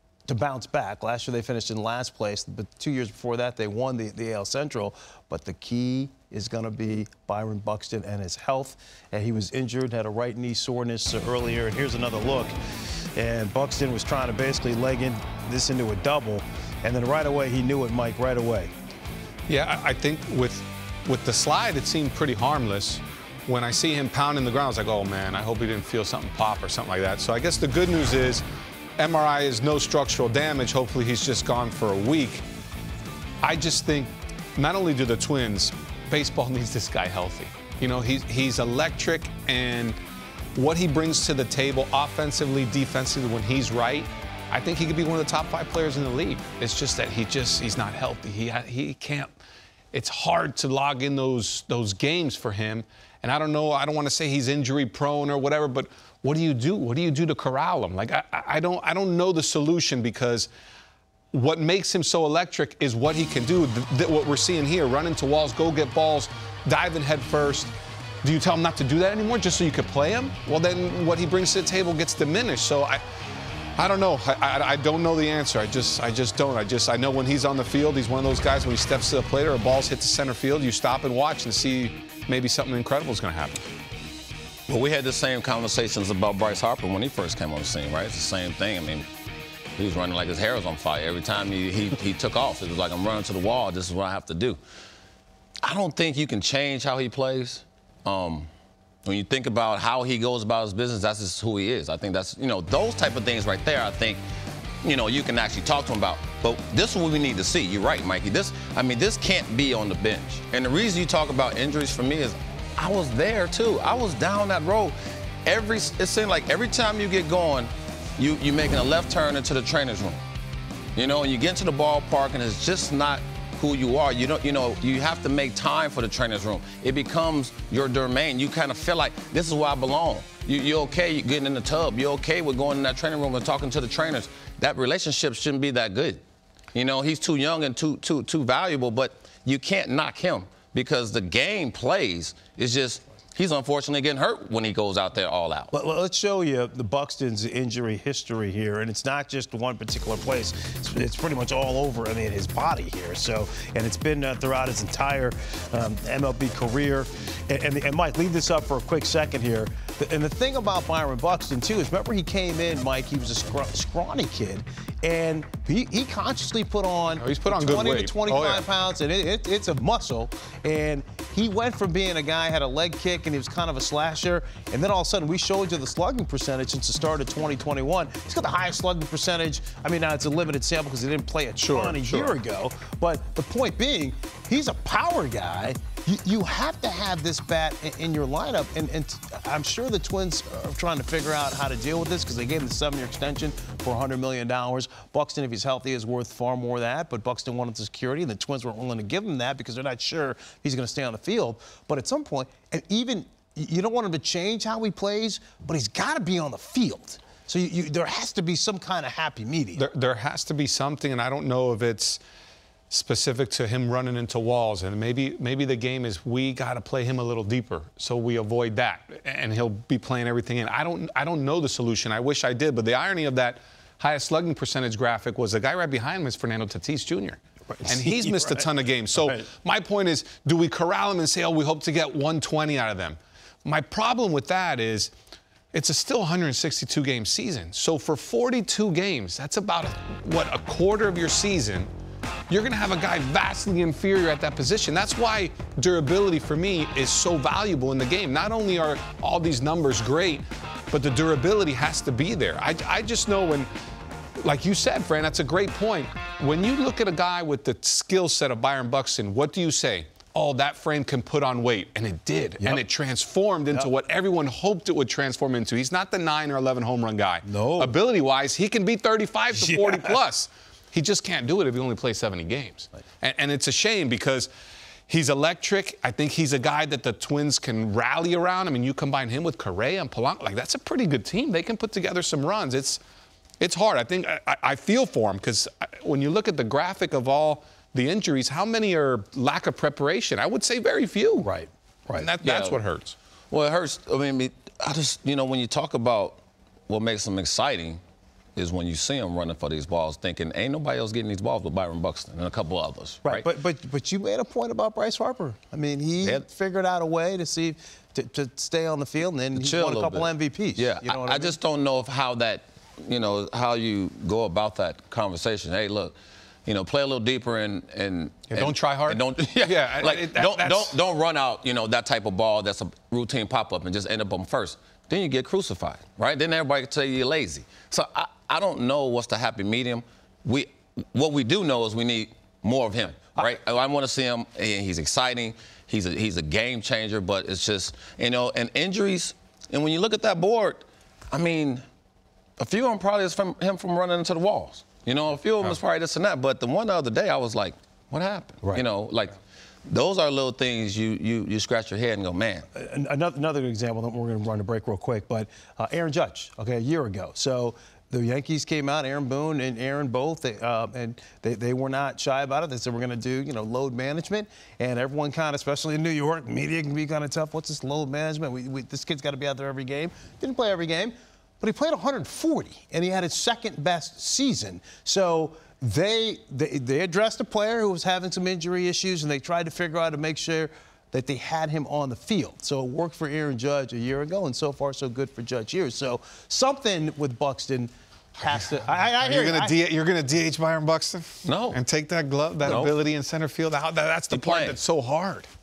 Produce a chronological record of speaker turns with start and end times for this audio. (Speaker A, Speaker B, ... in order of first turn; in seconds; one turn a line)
Speaker A: 0.3-12.6
Speaker A: 13.2-18.7
Speaker B: 19.5-28.4
Speaker B: 29.0-32.5
Speaker B: 33.4-40.0
Speaker B: 40.6-49.4
Speaker B: 49.9-60.5
Speaker B: 61.3-73.0
Speaker B: 73.8-83.7
Speaker C: 84.7-89.1
Speaker C: 89.8-94.6
Speaker C: 95.6-98.5
Speaker C: 99.0-104.2
Speaker C: 104.8-120.2
Speaker C: 121.0-136.2
Speaker C: 136.8-145.7
Speaker A: 145.7-209.9
Speaker B: 167.2-168.7
Speaker B: 181.6-182.3
Speaker B: 209.8-212.2
Speaker B: 212.9-235.1
Speaker A: 227.7-229.5
Speaker B: 235.7-241.9
Speaker B: 242.5-253.7
Speaker B: 254.4-274.5
Speaker A: 267.5-267.9
Speaker A: 269.6-270.2
Speaker B: 275.1-283.0
Speaker B: 283.6-291.5
Speaker A: 291.4-292.3
Speaker B: 292.1-293.2
Speaker C: 292.4-292.8
Speaker C: 293.5-298.0
Speaker C: 298.6-303.5
Speaker A: 303.2-311.6
Speaker C: 309.6-341.8
Speaker B: 318.5-321.0
Speaker C: 342.6-352.7
Speaker A: 352.7-389.8
Speaker B: 389.2-395.5
Speaker C: 391.4-391.8
Speaker C: 392.6-392.9
Speaker C: 394.3-394.8